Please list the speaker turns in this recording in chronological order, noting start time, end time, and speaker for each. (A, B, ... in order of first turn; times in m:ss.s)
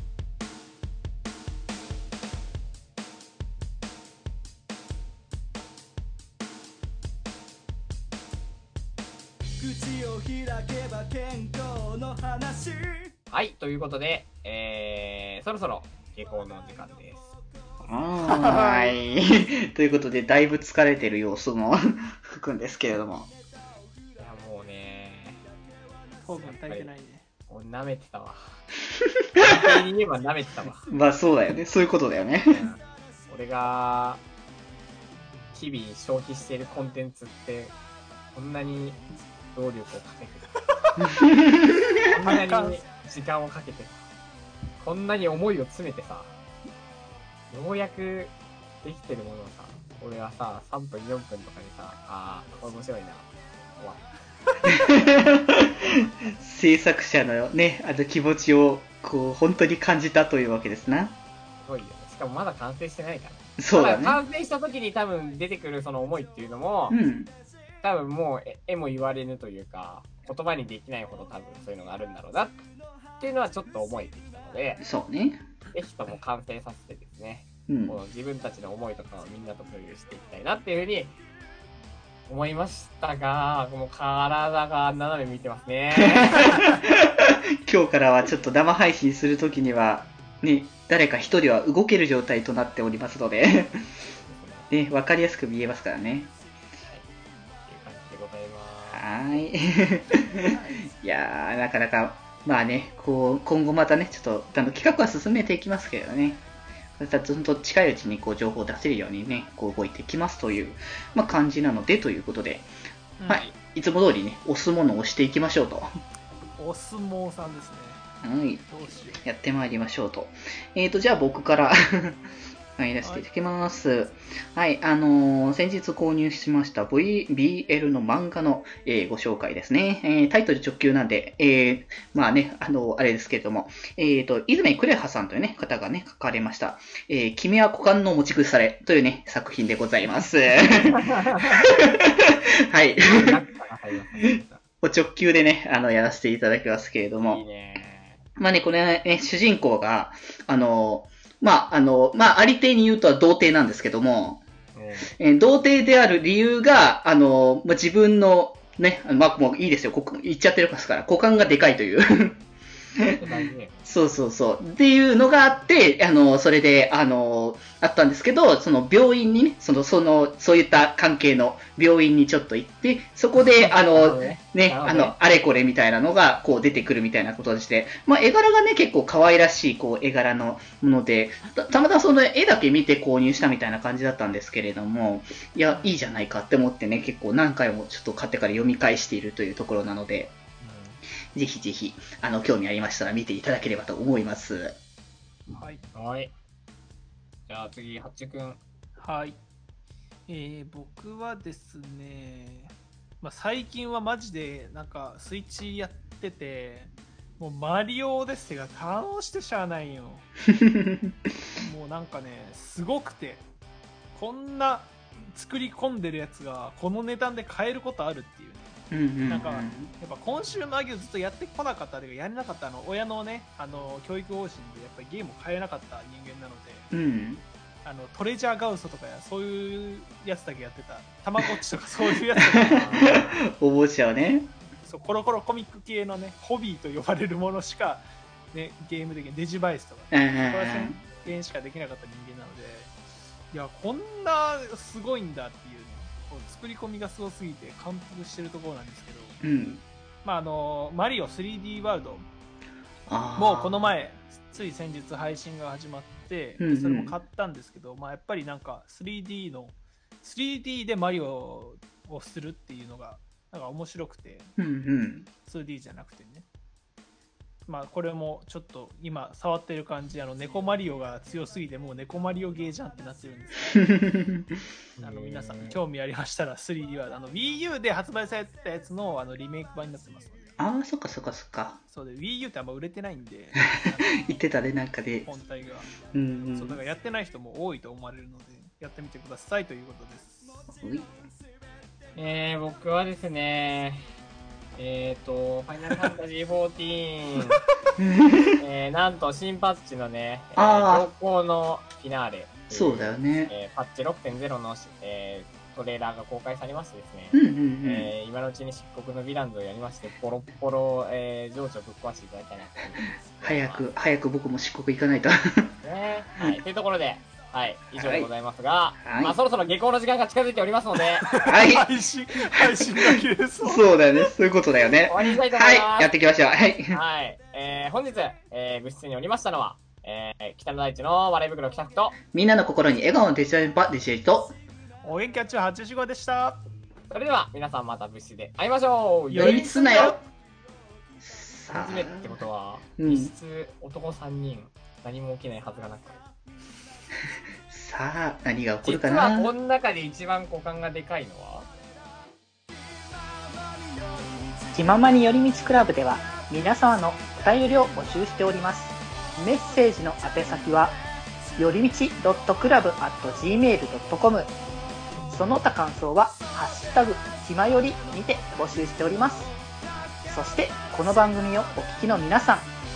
0:09.7-0:12.8 A
0:13.3-0:17.3 B
0:17.8-0:23.3 C
0:18.3-0:18.8 D
0:24.2-0:25.4 B
0:26.2-0:27.2 D
0:26.2-0:26.9 B
0:27.5-0:28.5 B
0:29.0-0:29.8 C
0:29.4-0:30.9 B
0:30.9-0:32.7 C
0:32.4-0:34.2 B
0:35.5-0:37.7 B
0:38.3-0:40.5 B
0:41.0-0:42.0 C
0:42.1-0:44.0 B
0:42.2-0:42.8 D
0:44.8-0:46.3 B
0:47.5-0:54.1 B
0:54.7-1:01.2 C
1:01.6-1:07.0 B
1:03.6-1:04.2 C
1:06.9-1:07.3 C
1:07.8-1:12.7 B
1:13.2-1:14.8 B
1:14.8-1:15.4 C
1:15.7-1:21.2 B
1:17.7-1:18.0 C
1:22.2-1:26.6 B
1:26.0-1:33.8 C
1:34.1-1:34.7 B
1:34.7-1:36.3 C
1:37.6-1:39.0 B
1:38.9-1:46.4 C
1:40.5-1:40.8 D
1:47.0-1:52.7 C
1:53.2-1:53.5 D
1:53.3-1:55.9 C
1:56.6-1:58.0 D
1:58.2-1:58.6 C
1:58.7-1:59.2 D
1:59.2-2:02.2 C
2:02.8-2:23.4 C
2:03.0-2:03.3 D
2:21.2-2:21.6 B
2:23.0-2:24.6 B
2:24.8-2:27.4 C
2:27.2-2:28.2 B
2:28.4-2:34.4 C
2:34.7-2:35.1 B
2:35.2-2:42.4 C
2:43.2-2:43.8 B
2:43.8-3:10.3 C
2:53.5-2:55.2 B
3:05.7-3:05.9 D
3:10.6-3:11.0 D
3:11.3-3:14.8 C
3:15.5-3:15.8 D
3:15.9-3:16.3 B
3:17.5-3:18.6 B
3:19.0-3:19.4 D
3:20.3-3:30.2 D
3:30.4-3:31.2 C
3:31.6-3:33.4 D
3:34.1-3:46.9 D
3:38.9-3:39.9 C
3:46.9-3:47.4 C
3:47.8-3:53.2 D
3:52.4-3:54.5 C
3:52.6-3:53.4 B
3:54.8-4:02.9 D
4:00.1-4:01.0 C
4:03.5-4:09.4 D
4:09.4-4:09.8 C
4:10.2-4:12.3 D
4:13.1-4:13.8 C
4:13.4-4:24.5 D
4:16.6-4:17.1 C
4:24.6-4:25.3 C
4:25.4-4:26.5 D
4:27.7-4:33.9 D
4:33.7-4:34.6 C
4:35.0-4:35.8 B
4:35.0-4:40.5 D
4:40.6-4:41.8 C
4:41.9-4:44.4 D
4:44.2-4:45.3 C
4:45.2-4:45.9 D
4:46.1-4:46.8 C
4:46.5-4:50.6 D
4:50.7-4:51.1 C
4:52.2-4:54.0 B
4:54.7-4:57.6 B
4:58.0-4:58.6 C
4:58.6-5:13.9 B
5:00.6-5:01.1 C
5:02.7-5:03.5 C
5:07.3-5:08.1 C
5:13.4-5:15.7 C
5:15.8-5:21.4 B
5:18.0-5:18.3 C
5:19.0-5:19.4 C
5:21.2-5:24.3 D
5:21.4-5:21.9 C
5:22.6-5:27.0 C
5:25.0-5:26.1 B
5:26.9-5:32.2 B
5:32.3-5:34.5 C
5:35.0-5:36.6 D
5:37.1-5:40.0 B
5:39.3-5:40.2 C
5:39.3-5:40.2 D
5:41.2-5:42.4 C
5:41.7-5:46.2 B
5:43.0-5:43.3 C
5:47.7-5:49.5 C
5:48.8-5:51.7 B
5:54.7-6:01.0 E
6:01.6-6:04.5 E
6:05.3-6:09.5 E
6:10.3-6:12.7 E